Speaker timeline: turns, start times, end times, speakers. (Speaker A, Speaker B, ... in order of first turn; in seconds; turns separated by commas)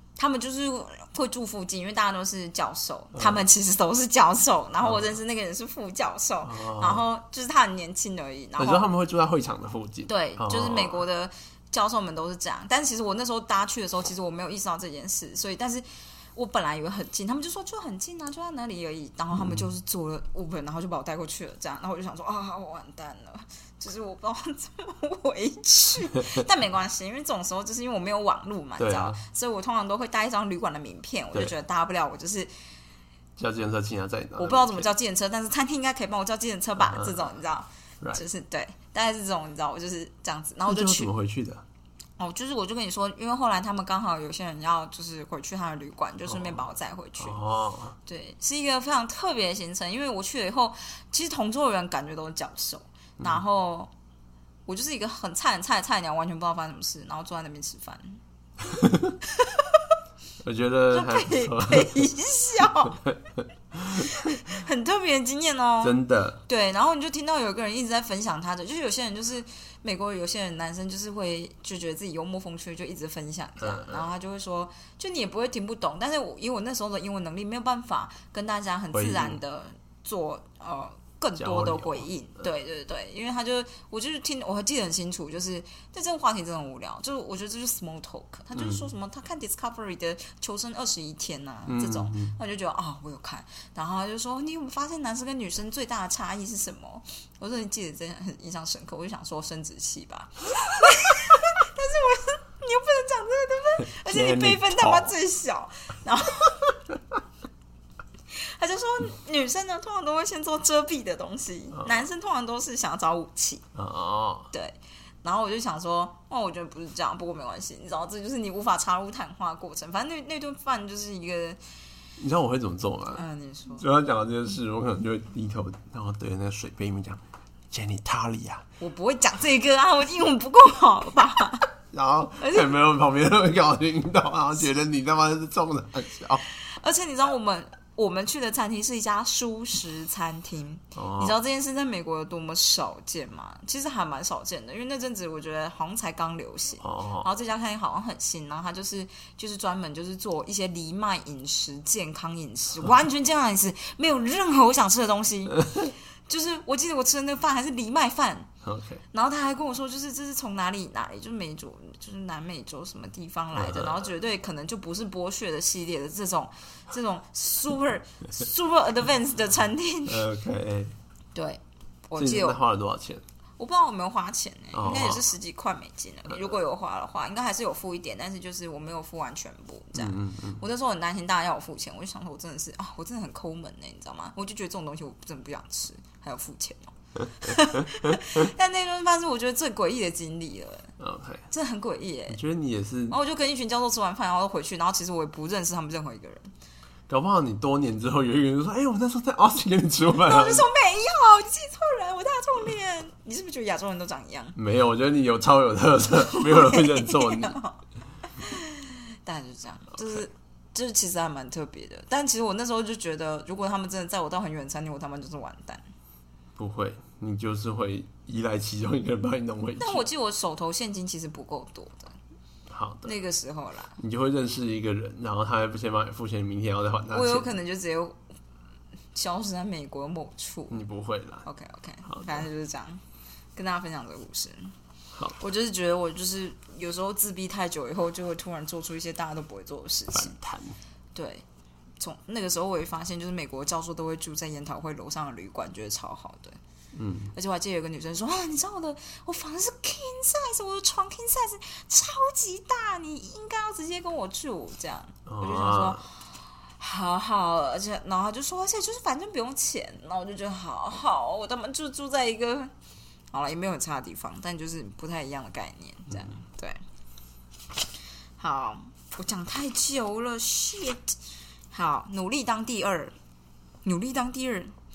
Speaker A: 0.2-8.9, Speaker B: 3.2-3.5, Speaker B: 6.4-7.0, Speaker B: 8.6-11.0, Speaker A: 10.1-32.5, Speaker B: 19.4-19.6, Speaker B: 28.8-29.2, Speaker B: 33.4-34.9, Speaker A: 34.4-41.1, Speaker B: 36.8-37.3, Speaker B: 40.6-41.6, Speaker A: 42.2-47.4, Speaker B: 46.3-46.6, Speaker B: 47.2-48.0, Speaker A: 48.1-53.9, Speaker A: 54.7-58.2, Speaker B: 58.6-59.2, Speaker A: 59.3-59.8, Speaker B: 60.4-62.1, Speaker A: 60.9-63.0, Speaker B: 62.8-64.4, Speaker A: 63.9-66.0, Speaker B: 65.8-66.4, Speaker A: 66.5-106.7, Speaker B: 73.6-74.1, Speaker B: 78.9-79.4, Speaker B: 81.4-82.1, Speaker B: 88.6-88.9, Speaker B: 91.7-92.3, Speaker B: 103.8-105.1, Speaker A: 108.3-113.7, Speaker B: 111.7-112.0, Speaker B: 113.8-114.5, Speaker A: 114.5-121.6, Speaker B: 122.2-123.2, Speaker A: 123.1-123.8, Speaker B: 123.8-128.7, Speaker A: 128.8-131.7, Speaker B: 131.9-136.4, Speaker A: 132.4-132.7, Speaker A: 136.6-158.5, Speaker B: 140.9-141.4, Speaker B: 146.8-147.3, Speaker B: 158.6-159.0, Speaker A: 159.1-170.2, Speaker B: 163.5-164.1, Speaker B: 170.1-170.9, Speaker A: 171.3-172.6, Speaker B: 172.2-173.2, Speaker A: 173.6-190.9, Speaker B: 174.7-175.2, Speaker B: 179.9-180.6, Speaker B: 187.4-188.4, Speaker B: 191.0-191.4, Speaker A: 191.5-192.4, Speaker B: 192.3-193.2, Speaker A: 193.1-196.5, Speaker B: 197.1-200.7, Speaker A: 200.2-204.6, Speaker B: 204.6-207.6, Speaker A: 206.2-207.8, Speaker A: 208.4-215.8, Speaker B: 216.6-220.1, Speaker A: 219.8-222.2, Speaker B: 222.7-223.1, Speaker A: 223.1-224.0, Speaker B: 224.0-227.5, Speaker A: 227.1-228.2, Speaker A: 229.1-230.8, Speaker B: 230.7-231.5, Speaker A: 231.4-233.0, Speaker B: 232.1-232.4, Speaker A: 233.6-234.7, Speaker A: 235.4-240.4, Speaker B: 240.1-240.8, Speaker A: 241.2-241.4, Speaker A: 242.0-246.6, Speaker B: 246.9-247.3, Speaker A: 247.3-256.1, Speaker B: 255.3-256.0, Speaker A: 256.8-262.7, Speaker A: 263.3-266.8, Speaker A: 268.4-271.1, Speaker A: 271.7-273.1, Speaker A: 273.9-274.8